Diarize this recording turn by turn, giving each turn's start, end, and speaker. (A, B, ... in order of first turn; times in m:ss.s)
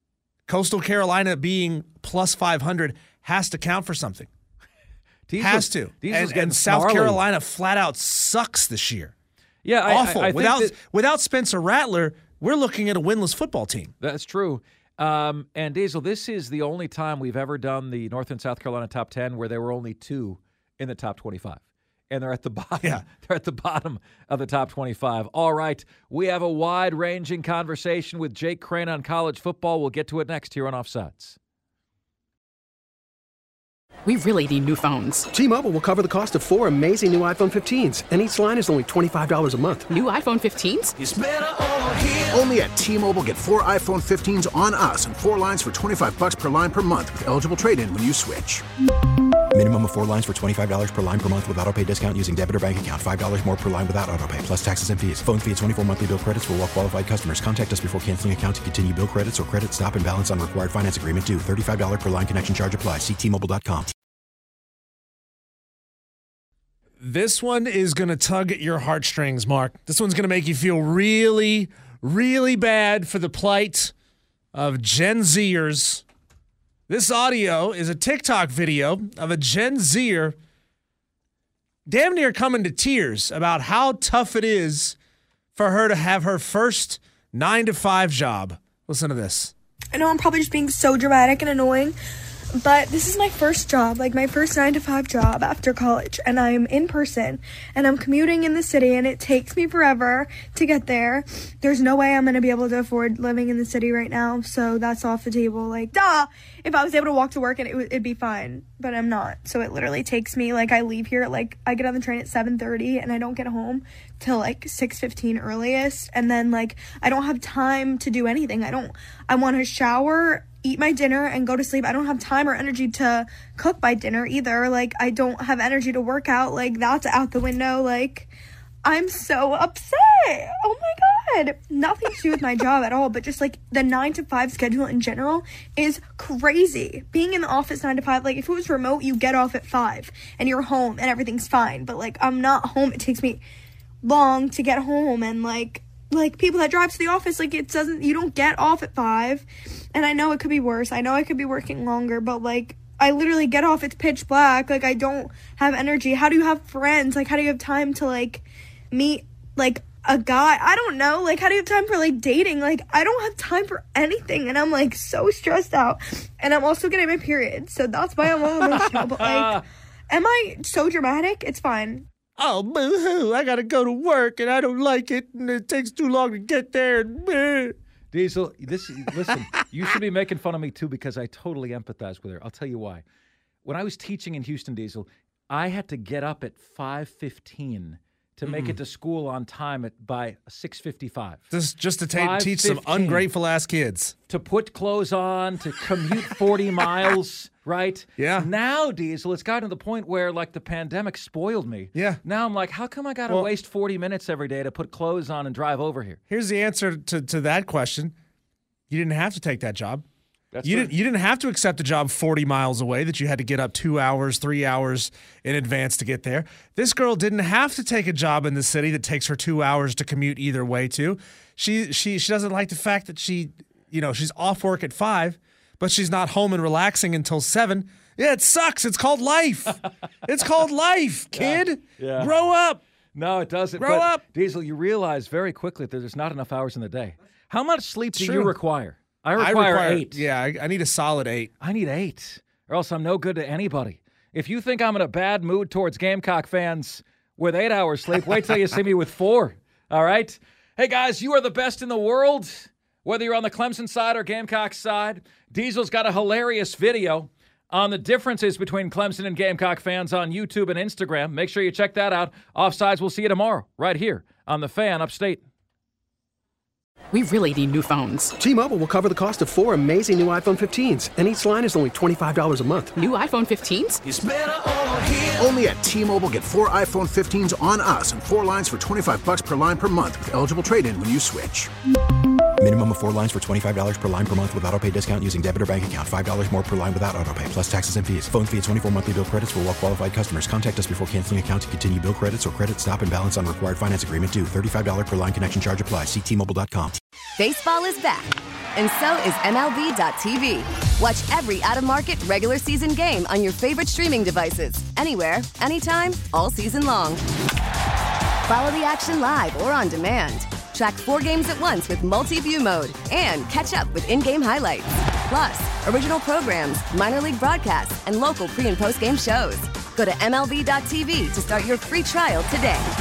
0:00.5-0:04.3 A
0:05.3-0:07.2 B
0:05.4-0:09.1 A
0:09.6-0:10.8 B
0:09.8-0:13.9 A
0:14.0-0:31.4 B
0:34.0-0:35.3 C
0:35.3-0:39.9 D
0:39.9-0:40.9 C
0:41.0-0:48.6 E
0:49.5-1:03.9 F
1:07.0-1:13.9 A
1:14.5-1:16.0 A
1:16.9-1:20.4 A
1:21.9-1:25.0 A
1:25.5-1:29.5 A
1:29.9-1:31.9 G
1:32.5-2:08.3 G
2:08.8-2:23.4 G
2:24.0-2:52.0 G
2:48.4-2:49.6 B
2:52.4-2:57.8 A
2:58.1-3:03.0 B
3:03.6-3:11.4 B
3:08.4-3:08.8 A
3:11.5-3:14.2 A
3:12.1-3:13.3 B
3:14.3-3:26.2 B
3:18.2-3:18.5 A
3:21.9-3:22.2 A
3:26.3-3:28.1 A
3:28.9-3:30.0 A
3:30.5-3:30.9 B
3:30.6-3:52.8 A
3:51.3-3:52.3 B
3:53.1-4:00.2 B
3:53.8-3:54.2 A
3:58.1-3:58.5 A
3:59.4-4:01.5 A
4:01.6-4:25.4 B
4:27.1-4:28.3 C
4:28.4-4:32.9 D
4:32.9-4:34.0 C
4:34.1-4:41.7 E
4:42.6-4:57.0 F
4:57.4-5:07.2 H
5:08.5-5:22.9 H